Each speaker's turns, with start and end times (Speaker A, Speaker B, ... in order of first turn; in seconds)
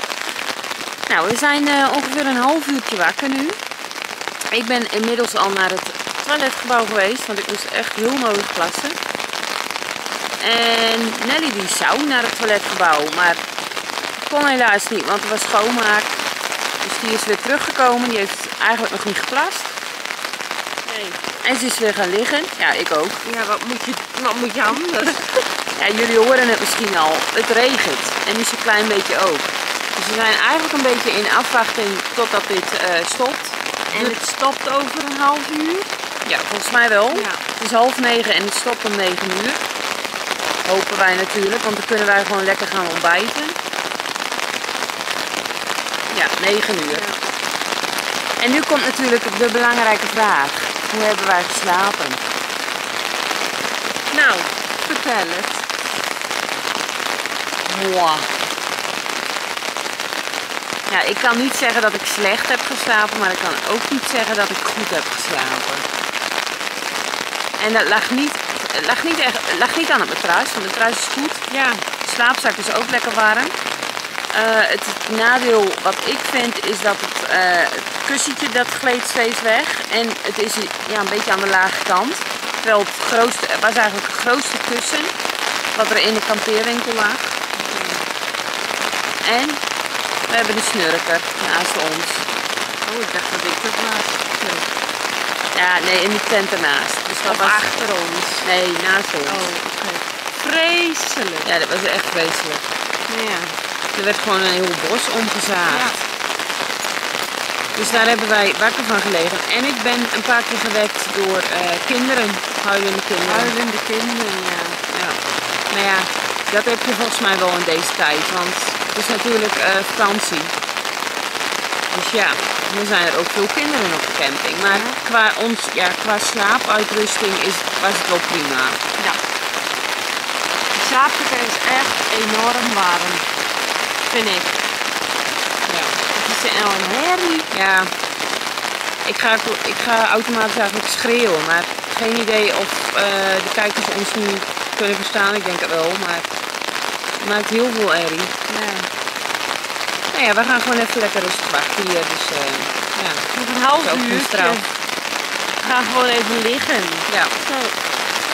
Speaker A: 1.1-3.6, 4.5-9.0, 10.4-13.4, 14.2-16.2, 16.8-19.8, 21.4-23.2, 25.7-34.2, 36.2-39.6, 40.6-43.6, 46.1-47.1, 48.4-52.2, 57.6-58.3, 60.9-65.8, 67.6-71.5, 72.0-73.5, 74.3-85.1, 85.7-87.4, 89.2-89.6, 90.3-92.3, 95.5-97.7, 98.4-99.5, 101.4-102.7, 103.9-106.0, 107.7-113.5, 114.9-115.2, 115.7-120.5, 121.9-128.8, 135.7-136.0, 137.5-137.9, 139.0-146.3, 147.2-148.3, 150.1-153.3, 153.8-154.6, 157.1-157.3
Speaker B: 20.8-21.2, 23.2-25.5, 33.9-35.9, 37.1-37.4, 46.9-47.2, 54.1-55.6, 71.5-71.8, 87.5-88.1, 92.8-94.7, 97.2-98.5, 99.2-101.5, 103.1-103.5, 105.7-106.0, 107.8-108.1, 113.2-114.8, 124.6-125.0, 130.7-133.3, 134.1-134.7, 136.0-137.5, 148.5-148.9, 153.3-154.7, 155.6-157.8